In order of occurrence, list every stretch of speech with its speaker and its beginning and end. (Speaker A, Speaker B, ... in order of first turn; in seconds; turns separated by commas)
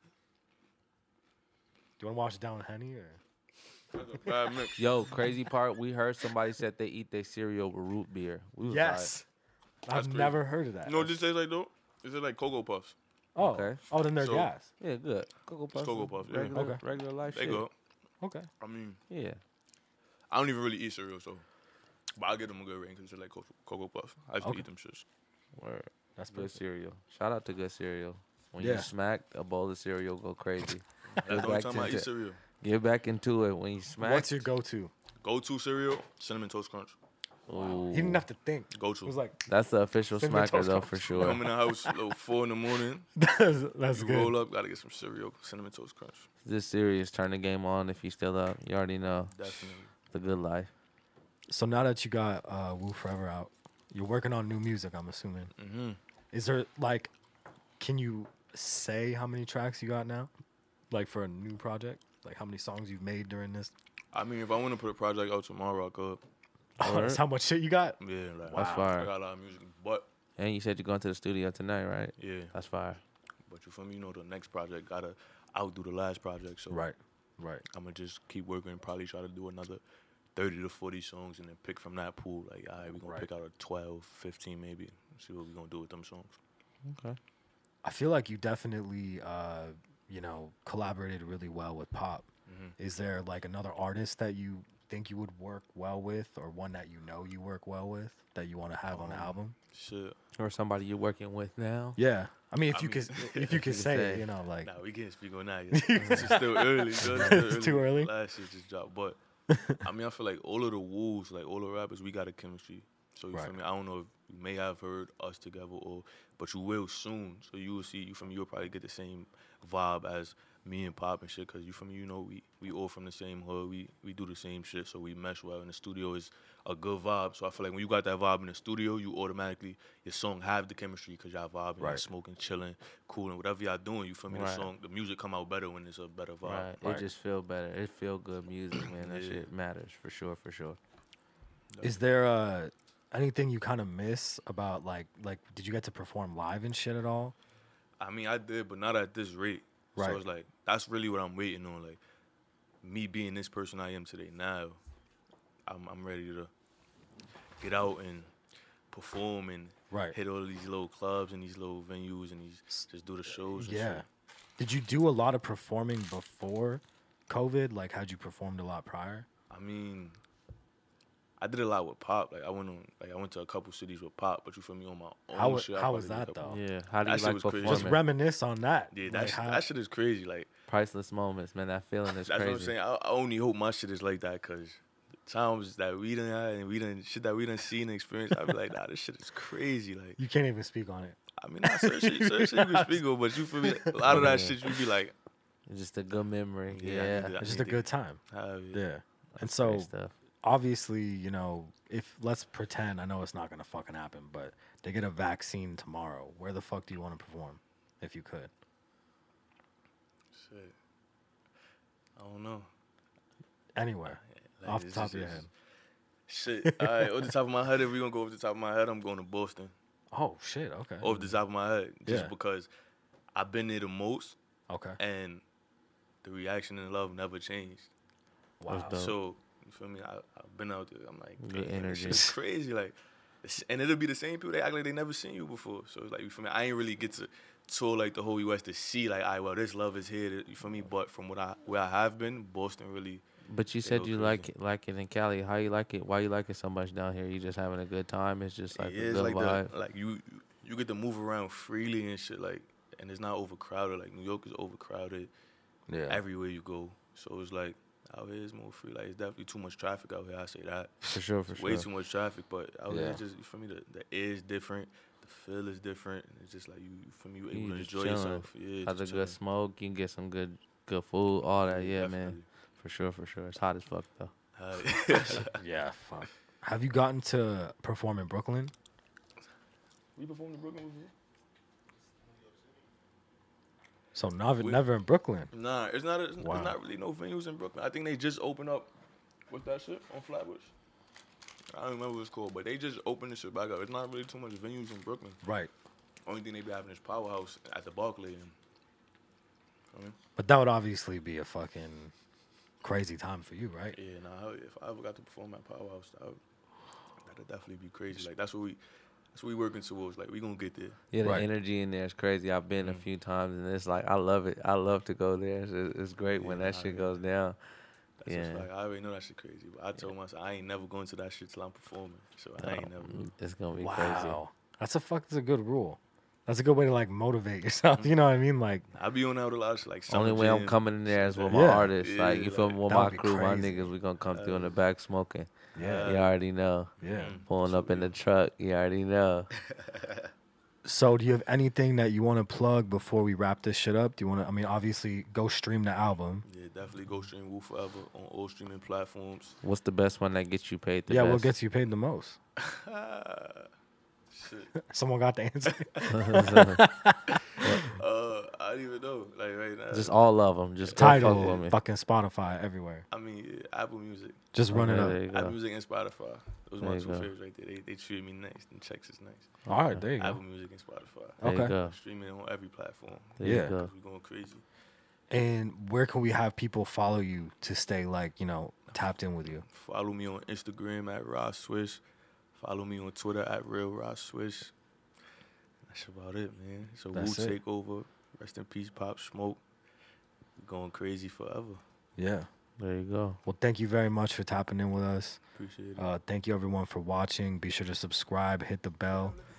Speaker A: 2.0-3.2, Speaker B: 3.9-4.8, Speaker C: 4.8-9.1, Speaker A: 8.6-9.3, Speaker A: 9.9-11.2, Speaker B: 9.9-12.9, Speaker A: 13.3-14.7, Speaker C: 13.4-13.8, Speaker B: 14.2-14.5, Speaker C: 14.8-17.7, Speaker B: 15.7-16.6, Speaker A: 16.5-16.8, Speaker B: 17.3-17.7, Speaker A: 18.2-18.5, Speaker B: 18.6-19.0, Speaker C: 19.1-19.4, Speaker B: 20.3-21.4, Speaker B: 22.2-25.0, Speaker A: 24.4-24.6, Speaker C: 25.6-32.1, Speaker A: 26.1-26.6, Speaker A: 28.6-28.9, Speaker B: 31.1-32.4, Speaker A: 31.1-31.6, Speaker C: 32.6-34.4, Speaker A: 34.0-34.9, Speaker B: 35.2-37.0, Speaker C: 37.5-38.2, Speaker A: 37.5-39.4, Speaker B: 38.7-39.2, Speaker C: 39.5-41.4, Speaker A: 40.1-42.0, Speaker B: 41.1-43.1, Speaker A: 43.1-44.4, Speaker B: 43.9-46.3, Speaker C: 46.4-50.7, Speaker B: 49.3-49.9, Speaker A: 51.5-55.5, Speaker B: 55.6-56.0, Speaker A: 56.3-57.1, Speaker A: 57.8-60.3, Speaker A: 60.9-63.7, Speaker B: 64.1-66.2, Speaker A: 66.8-68.9, Speaker C: 66.8-67.2, Speaker B: 68.0-70.1, Speaker C: 68.5-69.1, Speaker C: 70.4-73.0, Speaker B: 72.2-72.5, Speaker B: 73.5-76.8, Speaker A: 76.7-77.6, Speaker B: 77.7-79.8, Speaker B: 80.3-86.4, Speaker A: 82.9-83.3, Speaker C: 86.8-87.2, Speaker A: 87.8-99.5, Speaker B: 92.5-92.7, Speaker B: 98.9-100.2, Speaker C: 100.4-102.0, Speaker A: 102.0-104.7, Speaker B: 102.7-103.7, Speaker C: 103.5-104.2, Speaker B: 104.6-109.2, Speaker A: 105.7-108.1, Speaker C: 106.0-106.2, Speaker A: 109.5-109.8, Speaker B: 109.8-137.0, Speaker A: 131.8-132.1, Speaker C: 134.3-134.7, Speaker C: 136.4-140.8, Speaker B: 138.9-139.5, Speaker B: 141.7-142.0, Speaker A: 141.8-147.3, Speaker B: 148.0-152.0, Speaker A: 149.9-150.2, Speaker B: 152.8-154.8, Speaker B: 155.7-156.5, Speaker B: 157.6-158.3, Speaker B: 158.9-164.1, Speaker A: 159.9-160.2, Speaker A: 163.5-164.0, Speaker A: 164.6-169.3, Speaker B: 169.5-170.2, Speaker B: 171.4-176.4, Speaker A: 175.3-176.6, Speaker C: 176.4-178.0, Speaker B: 177.0-177.9, Speaker A: 177.6-179.6, Speaker B: 178.9-180.5, Speaker C: 180.7-182.7, Speaker B: 182.1-190.2, Speaker A: 190.2-193.0, Speaker B: 191.4-195.1, Speaker A: 193.6-194.4, Speaker C: 194.1-194.6, Speaker C: 195.7-197.3, Speaker B: 196.7-198.8, Speaker A: 197.4-198.2, Speaker A: 198.7-199.9, Speaker C: 199.4-200.1, Speaker A: 200.4-208.5, Speaker B: 210.3-210.7, Speaker B: 212.2-212.7, Speaker A: 213.8-215.5, Speaker B: 214.1-215.5, Speaker B: 216.3-219.7, Speaker A: 216.6-217.3, Speaker A: 220.1-221.3, Speaker B: 221.0-222.7, Speaker A: 222.1-222.3, Speaker B: 223.3-224.4, Speaker A: 224.7-225.0, Speaker B: 225.0-225.4, Speaker B: 226.2-227.9, Speaker A: 228.6-229.0, Speaker C: 228.7-229.2, Speaker B: 228.9-243.2, Speaker C: 231.4-232.3, Speaker C: 243.5-249.7, Speaker B: 243.8-244.5, Speaker B: 248.7-255.3, Speaker A: 255.9-256.2, Speaker B: 256.1-269.4, Speaker C: 261.1-261.9, Speaker A: 262.9-263.2, Speaker C: 267.5-274.3, Speaker B: 271.6-272.4, Speaker B: 274.6-275.6, Speaker A: 275.4-278.7, Speaker B: 280.1-281.1, Speaker A: 284.1-285.5, Speaker B: 284.6-284.8, Speaker B: 285.5-288.9, Speaker A: 286.4-286.8, Speaker B: 289.5-290.7, Speaker B: 291.7-295.4, Speaker A: 295.4-295.7, Speaker B: 296.2-298.5, Speaker A: 300.4-302.1, Speaker A: 302.8-304.0, Speaker B: 303.9-306.4, Speaker B: 307.2-308.8, Speaker B: 309.3-311.0, Speaker C: 311.1-317.7, Speaker B: 312.8-313.1, Speaker B: 316.4-317.1, Speaker B: 318.2-323.3, Speaker C: 318.2-318.7, Speaker C: 322.6-324.4, Speaker A: 323.8-328.9, Speaker B: 328.9-332.9, Speaker C: 330.1-335.5, Speaker A: 331.5-331.9, Speaker A: 332.9-333.9, Speaker B: 334.3-334.8, Speaker A: 335.8-336.2, Speaker B: 335.8-336.3, Speaker C: 336.0-336.9, Speaker A: 337.0-337.4, Speaker B: 337.0-338.1, Speaker C: 337.4-339.5, Speaker B: 339.6-340.3, Speaker A: 340.8-346.4, Speaker B: 346.4-349.6, Speaker C: 349.6-351.6, Speaker A: 351.1-352.4, Speaker B: 352.6-353.7, Speaker B: 354.3-354.8, Speaker A: 354.8-358.0, Speaker B: 355.7-356.1, Speaker C: 356.1-356.8, Speaker B: 357.3-360.2, Speaker C: 359.9-361.8, Speaker B: 360.8-361.6, Speaker A: 360.9-363.1, Speaker B: 363.1-369.5, Speaker A: 364.5-365.2, Speaker C: 364.7-365.6, Speaker C: 366.8-367.3, Speaker A: 369.6-370.4, Speaker B: 370.2-374.6, Speaker A: 371.4-371.7, Speaker C: 371.4-371.9, Speaker C: 373.4-373.9, Speaker A: 373.4-373.7, Speaker A: 375.3-379.6, Speaker B: 379.6-382.0, Speaker B: 382.5-384.7, Speaker B: 385.9-389.6, Speaker A: 387.1-387.6, Speaker B: 390.6-391.8, Speaker A: 392.2-392.5, Speaker C: 392.8-393.4, Speaker A: 393.4-395.4, Speaker B: 395.6-396.1, Speaker A: 396.0-399.4